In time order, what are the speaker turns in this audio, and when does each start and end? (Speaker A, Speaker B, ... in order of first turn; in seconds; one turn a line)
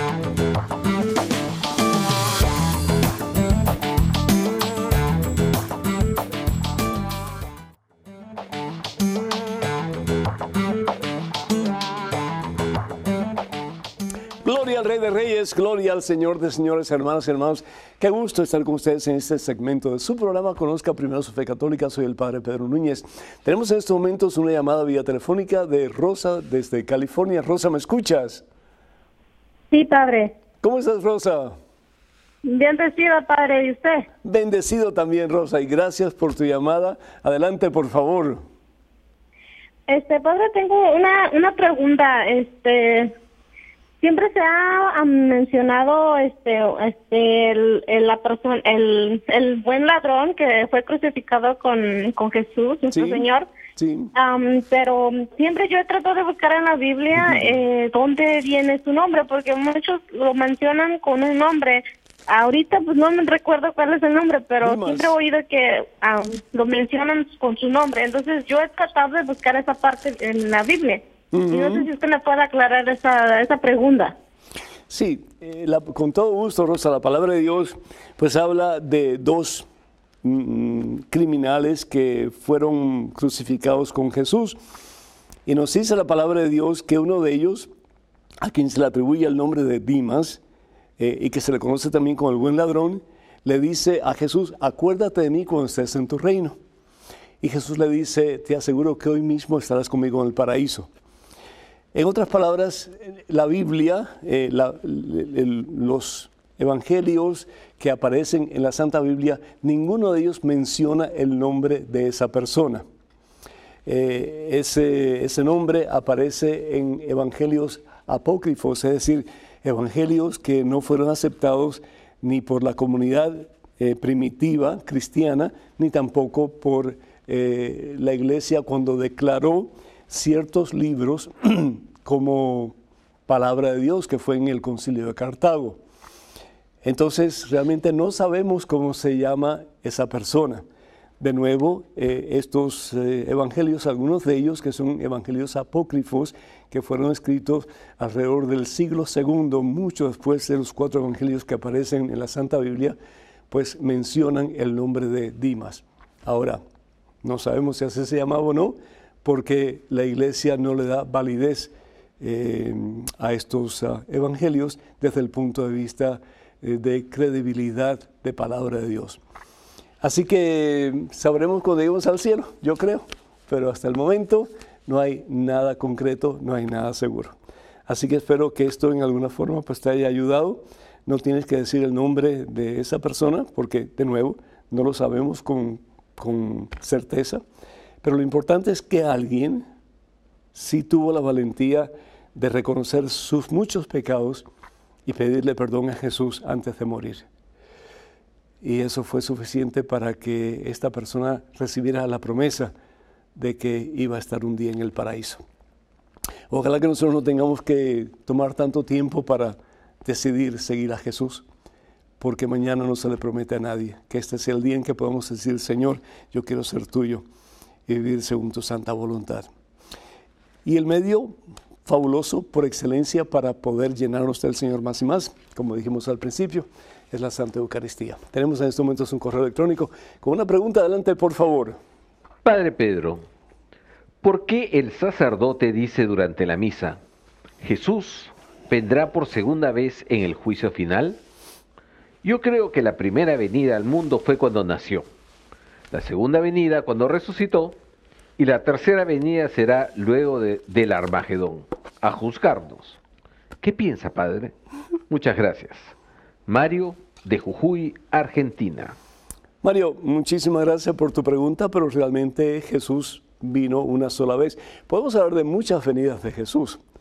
Speaker A: 14.4-28.4
Speaker B: 29.7-30.3
Speaker A: 30.6-31.6
Speaker B: 32.4-34.0
Speaker A: 34.2-38.4
Speaker B: 39.9-43.1
Speaker B: 44.0-53.5
Speaker A: 52.9-54.1
Speaker B: 54.1-74.2
Speaker A: 57.2-57.5
Speaker A: 64.6-65.1
Speaker A: 71.3-71.9
Speaker A: 74.9-79.7
Speaker A: 80.2-84.6
Speaker A: 85.5-87.7
Speaker A: 88.4-90.4
Speaker A: 91.0-96.6
Speaker A: 97.4-100.9
Speaker A: 101.9-112.8
Speaker A: 113.8-132.7
Speaker A: 133.3-135.8
Speaker A: 136.8-140.6
Speaker A: 141.2-152.9
Speaker A: 153.5-156.6
Speaker A: 157.2-169.2
Speaker A: 170.0-177.3
Speaker A: 177.9-187.4
Speaker A: 188.0-189.6
Speaker A: 190.5-194.4
Speaker A: 195.1-197.2
Speaker A: 198.6-202.7
Speaker A: 203.3-205.4
Speaker A: 206.5-211.4
Speaker A: 212.2-217.2
Speaker A: 217.9-219.5
Speaker A: 220.6-231.8
Speaker C: 232.4-233.2
Speaker C: 234.2-237.0
Speaker C: 237.6-241.2
Speaker C: 242.2-245.1
Speaker C: 245.9-247.8
Speaker C: 248.4-253.0
Speaker C: 253.6-254.5
Speaker C: 255.1-255.9
Speaker C: 256.5-258.9
Speaker A: 259.6-266.8